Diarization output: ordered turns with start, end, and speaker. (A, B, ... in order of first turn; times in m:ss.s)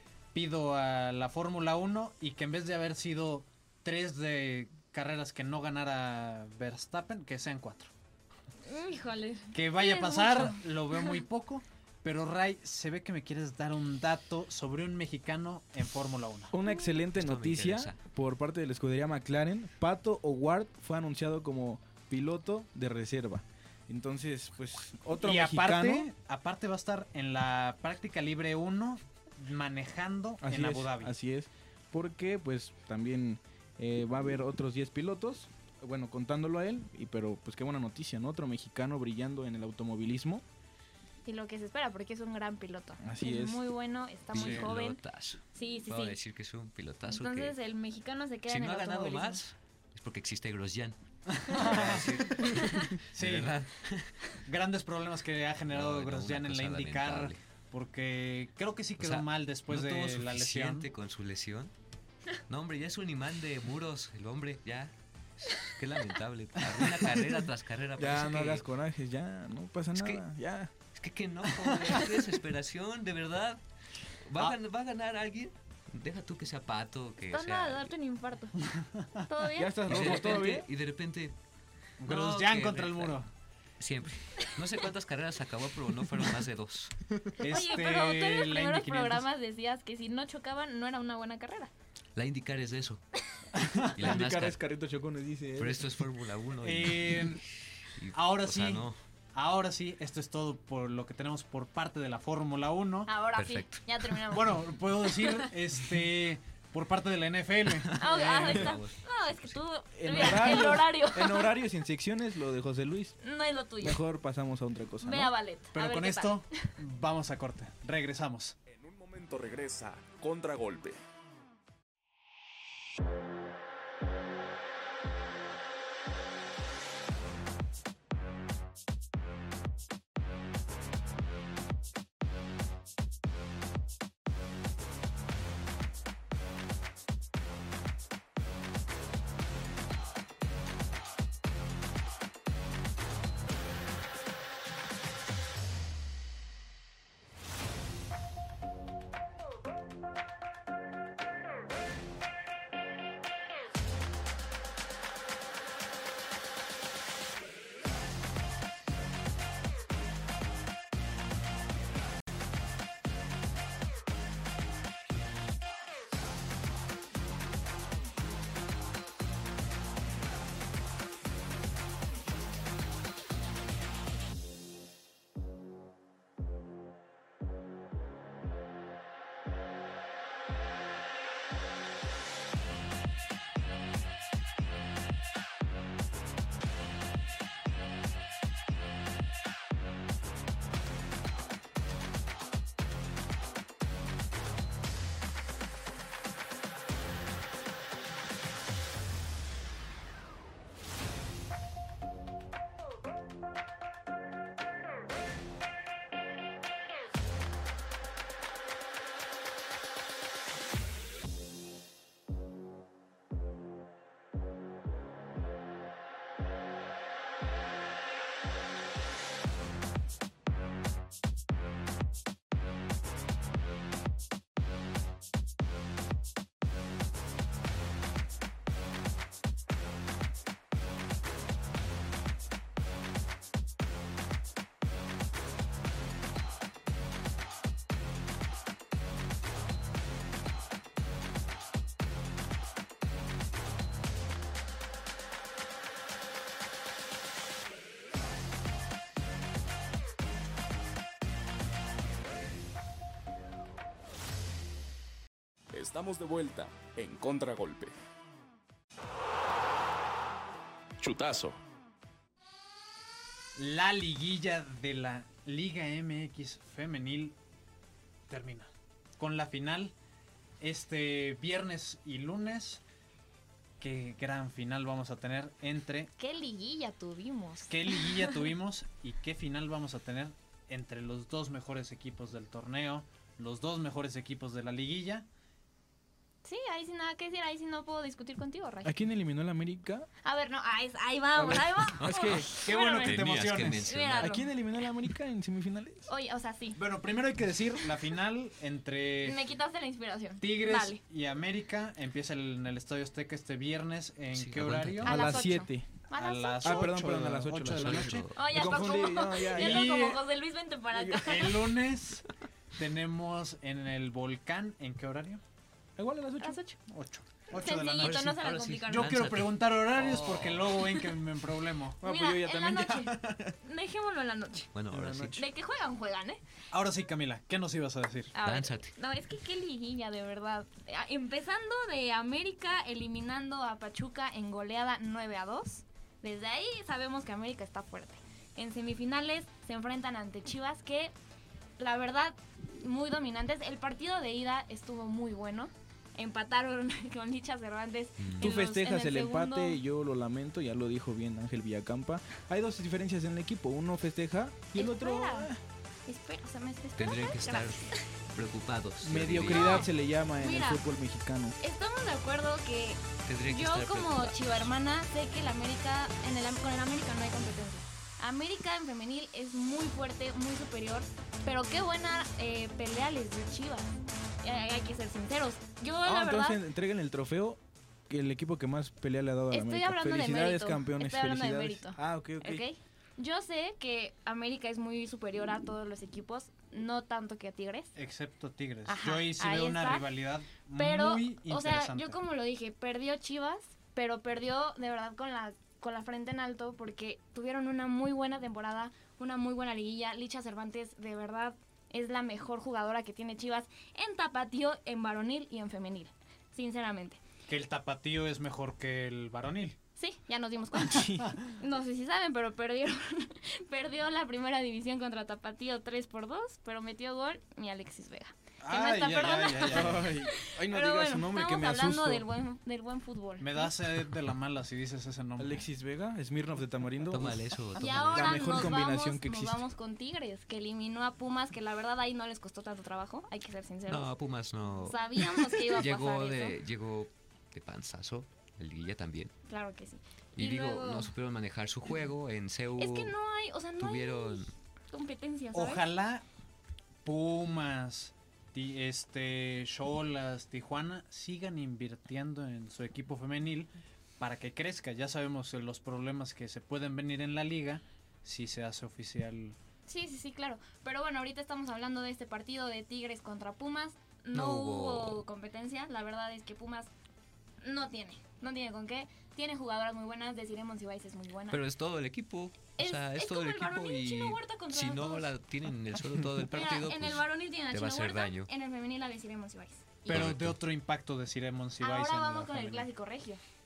0:00.3-0:07.9 A
0:08.6-0:11.2 B
0:09.5-0:16.5 A
0:16.5-0:26.1 C
0:16.7-0:16.9 B
0:17.2-0:18.0 D
0:25.2-0:31.1 A
0:30.4-0:40.4 C
0:41.2-0:45.0 B
0:43.0-0:43.6 C
0:44.3-0:47.6 D
0:44.3-0:44.7 A
0:45.5-0:46.2 B
0:47.1-0:49.4 B
0:48.5-0:54.2 D
0:51.3-0:52.6 A
0:52.4-0:53.0 B
0:53.1-0:53.6 A
0:54.4-1:00.9 A
0:55.7-0:57.4 D
0:59.0-1:01.7 D
1:02.5-1:08.6 D
1:08.0-1:10.7 C
1:10.0-1:10.2 D
1:11.0-1:13.6 D
1:11.6-1:12.0 A
1:14.2-1:17.9 D
1:17.3-1:18.6 B
1:18.6-1:19.2 A
1:19.3-1:20.2 B
1:19.6-1:20.7 C
1:19.9-1:21.4 D
1:22.0-1:23.3 A
1:22.0-1:23.2 D
1:23.8-1:27.0 D
1:27.4-1:29.3 A
1:27.4-1:31.7 B
1:32.2-1:33.0 D
1:33.6-1:33.9 A
1:33.9-1:34.6 D
1:34.0-1:36.0 C
1:35.6-1:39.0 D
1:36.6-1:37.4 A
1:38.1-1:43.1 A
1:43.1-1:45.5 B
1:43.4-1:44.2 D
1:44.3-1:48.7 A
1:47.9-1:49.6 D
1:48.0-1:51.6 B
1:49.9-1:53.2 C
1:53.2-1:54.0 B
1:53.8-1:55.3 C
1:55.0-1:56.8 B
1:55.7-1:58.6 A
1:58.7-2:01.0 E
4:15.7-4:18.0 E
4:21.0-4:21.6 E
4:23.6-4:27.4 A
4:28.3-4:29.9 A
4:30.6-4:32.8 A
4:33.8-4:36.1 A
4:36.2-4:38.5 B
4:37.7-4:45.3 A
4:46.4-4:48.9 B
4:48.8-4:50.1 C
4:50.2-4:54.5 B
4:51.4-4:52.5 C
4:52.0-4:54.4 D
4:52.6-4:53.9 A
4:54.2-4:56.1 C
4:56.1-4:56.8 B
4:56.8-4:59.4 A
4:59.2-5:01.0 B
5:00.4-5:05.3 A
5:04.3-5:05.2 D
5:05.0-5:05.9 C
5:05.0-5:07.0 B
5:06.2-5:08.3 A
5:06.6-5:10.0 C
5:07.7-5:08.4 D
5:08.3-5:11.8 B
5:09.4-5:10.2 A
5:10.9-5:11.2 C
5:11.2-5:15.4 A
5:16.0-5:16.8 C
5:16.9-5:22.0 A
5:17.5-5:19.1 B
5:18.0-5:21.0 D
5:22.0-5:23.6 C
5:22.0-5:24.7 B
5:24.7-5:25.4 D
5:24.9-5:25.4 C
5:25.3-5:26.4 B
5:26.7-5:28.3 A
5:28.3-5:41.1 B
5:28.4-5:28.9 D
5:41.8-5:49.8 B
5:48.2-5:48.5 D
5:48.4-5:55.6 C
5:54.7-5:55.5 B
5:56.1-5:58.1 B
5:57.0-5:59.9 D
5:59.0-6:01.6 C
5:59.5-6:00.8 B
6:01.6-6:13.9 B
6:03.3-6:04.7 D
6:14.4-6:16.6 B
6:16.0-6:22.6 C
6:19.5-6:27.9 B
6:28.0-6:32.2 A
6:28.9-6:30.1 B
6:30.8-6:47.2 B
6:47.5-6:49.8 A
6:50.0-7:03.8 B
6:50.8-6:51.4 C
6:58.6-7:00.1 A
6:59.7-7:02.3 C
7:03.4-7:05.6 A
7:05.4-7:07.5 C
7:07.1-7:08.7 D
7:07.8-7:14.1 B
7:08.1-7:09.6 C
7:13.9-7:19.3 D
7:14.8-7:16.6 B
7:19.5-7:21.1 B
7:20.4-7:23.2 D
7:22.8-7:25.8 B
7:23.8-7:24.5 D
7:25.5-7:26.2 A
7:27.0-7:39.6 A
7:39.9-7:46.9 B
7:44.3-7:45.2 D
7:47.6-7:51.6 B
7:51.5-7:58.5 D
7:52.8-7:55.3 B
7:56.5-8:00.2 B
8:00.1-8:00.6 D
8:00.1-8:02.9 A
8:01.8-8:03.4 B